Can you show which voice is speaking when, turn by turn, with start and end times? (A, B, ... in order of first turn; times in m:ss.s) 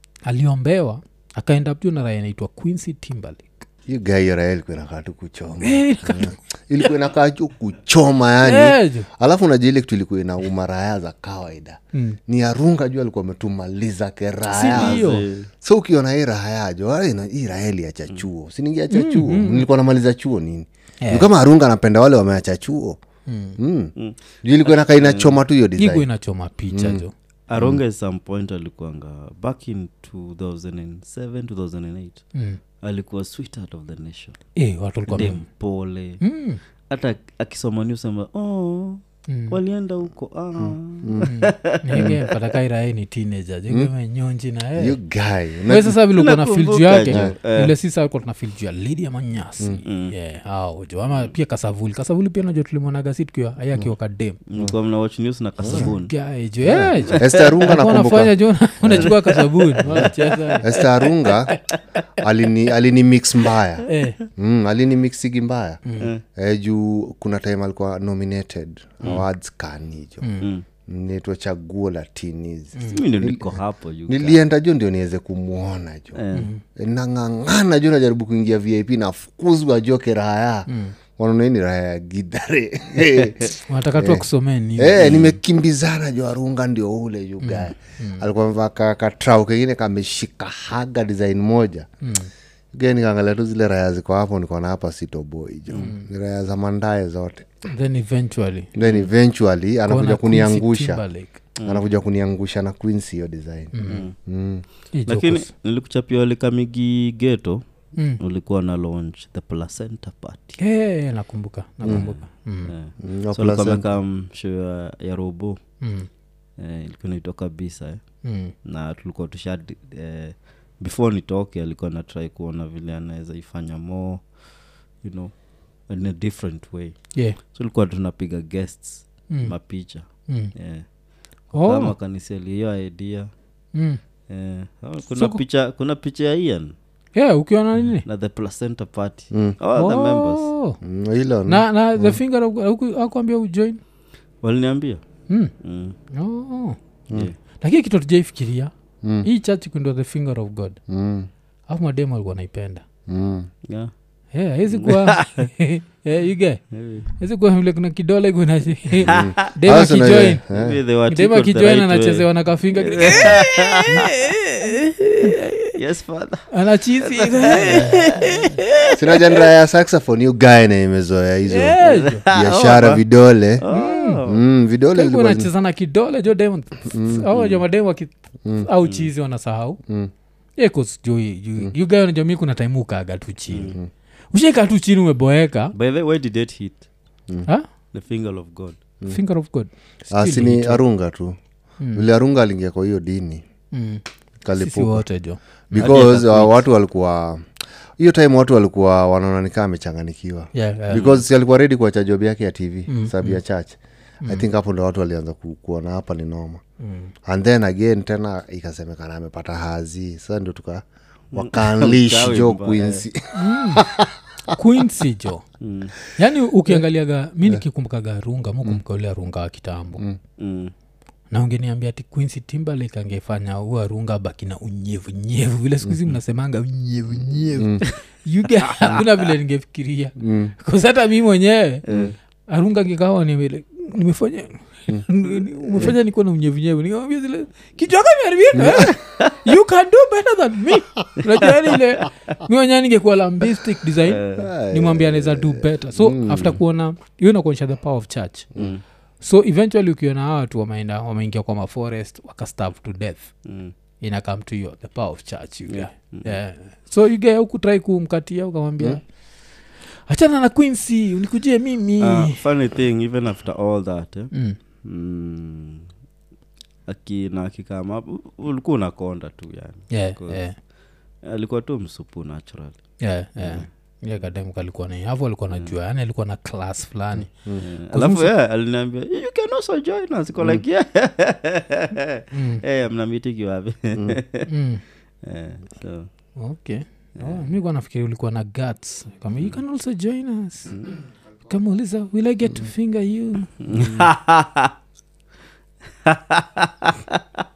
0:00.2-0:03.7 A
0:03.9-0:23.0 B
0:05.6-0:06.4 A
0:08.4-0:09.1 A
0:14.5-0:15.3 A
0:14.7-0:15.5 C
0:18.9-0:19.7 A
0:21.0-0:21.3 A
0:23.3-0:23.6 A
0:23.6-0:26.1 B
0:24.7-0:25.4 C
0:25.8-0:27.1 A
0:26.7-0:27.0 B
0:27.5-0:32.3 C
0:27.6-0:27.8 B
0:32.8-0:34.4 C
0:34.6-0:35.4 A
0:35.1-0:35.3 B
0:35.1-0:36.2 C
0:36.2-0:36.6 A
0:36.9-0:42.2 C
0:39.3-0:39.6 A
0:40.6-0:41.4 B
0:41.2-0:45.0 A
0:42.0-0:42.2 B
0:44.8-0:46.0 B
0:45.7-0:54.4 A
0:46.1-0:47.8 C
0:49.8-0:50.1 C
0:54.5-0:56.1 C
0:55.6-0:55.9 B
0:55.7-1:01.6 A
0:56.7-0:59.1 B
0:57.2-0:57.5 C
0:59.0-1:01.1 C
0:59.8-1:00.1 B
1:00.6-1:01.6 B
1:02.2-1:05.8 B
1:03.9-1:04.2 A
1:05.8-1:06.1 A
1:06.4-1:10.3 B
1:10.2-1:10.5 A
1:10.9-1:24.2 B
1:12.9-1:14.4 C
1:16.2-1:16.5 C
1:16.3-1:16.6 A
1:20.7-1:21.0 A
1:23.7-1:25.3 A
1:24.8-1:31.9 B
1:25.0-1:25.3 C
1:27.4-1:28.2 A
1:32.0-1:32.3 A
1:32.7-1:37.5 B
1:35.8-1:36.1 A
1:37.7-1:38.7 A
1:38.8-1:41.0 B
1:39.9-1:41.4 A
1:41.6-1:41.8 C
1:41.6-1:44.6 B
1:43.7-1:44.0 A
1:43.9-1:44.2 C
1:44.9-1:45.5 A
1:45.1-1:47.6 C
1:48.2-1:50.6 C
1:50.6-1:52.7 A
1:51.8-1:52.1 B
1:51.9-1:55.6 C
1:53.0-1:54.0 B
1:55.8-1:56.1 A
1:56.6-1:58.0 C
1:58.2-1:58.5 A
1:58.6-2:10.9 C
2:10.3-2:10.5 A
2:11.4-2:13.3 C
2:11.5-2:12.0 A
2:13.7-2:14.0 A
2:14.3-2:16.8 C
2:15.1-2:15.4 A
2:17.2-2:18.0 A
2:18.0-2:20.5 C
2:19.8-2:20.8 A
2:20.8-2:22.2 B
2:21.5-2:23.8 A
2:24.4-2:25.0 C
2:25.6-2:26.0 C
2:26.1-2:26.8 A
2:27.6-2:28.7 A
2:29.2-2:30.8 A
2:30.9-2:31.3 B
2:31.7-2:32.8 A
2:33.1-2:33.5 B
2:33.7-2:33.9 C
2:34.3-2:40.4 A
2:34.7-2:35.5 C
2:36.7-2:37.1 C
2:39.0-2:40.8 B
2:39.0-2:39.3 C
2:40.5-2:44.2 C
2:41.1-2:45.8 A
2:45.3-2:48.4 C
2:46.5-2:49.4 A
2:48.9-2:53.6 B
2:51.5-2:52.2 A
2:51.8-2:53.0 C
2:53.6-2:54.4 C
2:53.7-2:54.2 A
2:54.2-2:55.5 B
2:54.9-2:59.8 A
2:56.9-2:57.3 B
3:00.6-3:03.8 A
3:04.3-3:05.7 A
3:05.8-3:06.9 C
3:07.9-3:08.8 C
3:09.1-3:10.8 A
3:10.1-3:11.4 B
3:11.9-3:13.4 B
3:13.7-3:14.0 A
3:14.4-3:15.1 B
3:14.6-3:15.9 A
3:15.7-3:17.5 B
3:15.8-3:16.6 C
3:18.0-3:26.6 B
3:20.5-3:21.0 A
3:20.9-3:21.2 C
3:22.9-3:23.4 A
3:26.8-3:27.1 A
3:27.3-3:34.1 B
3:31.3-3:33.0 C
3:33.3-3:33.9 A
3:34.5-3:35.4 A
3:35.6-3:35.9 C
3:36.1-3:40.0 A
3:40.4-3:40.7 C
3:41.3-3:51.9 A
3:50.2-3:50.5 B
3:51.9-3:52.2 C
3:52.5-4:08.5 A
3:58.5-3:59.0 B
4:04.1-4:04.5 C
4:04.4-4:06.6 B
4:08.6-4:08.8 C
4:09.2-4:13.4 A
4:13.4-4:13.7 C
4:14.0-4:19.2 A
4:15.7-4:16.3 C
4:20.1-4:22.4 A
4:22.0-4:25.9 C
4:24.3-4:24.6 A
4:26.9-4:30.4 C
4:29.9-4:30.6 A
4:31.2-4:32.8 C
4:33.0-4:38.3 A
4:33.4-4:33.6 C
4:37.6-4:44.5 C
4:42.3-4:42.6 A
4:44.5-4:44.8 A
4:45.2-4:46.1 C
4:46.4-4:50.8 A
4:51.5-4:53.6 A
4:53.6-4:54.7 C
4:56.1-4:57.2 C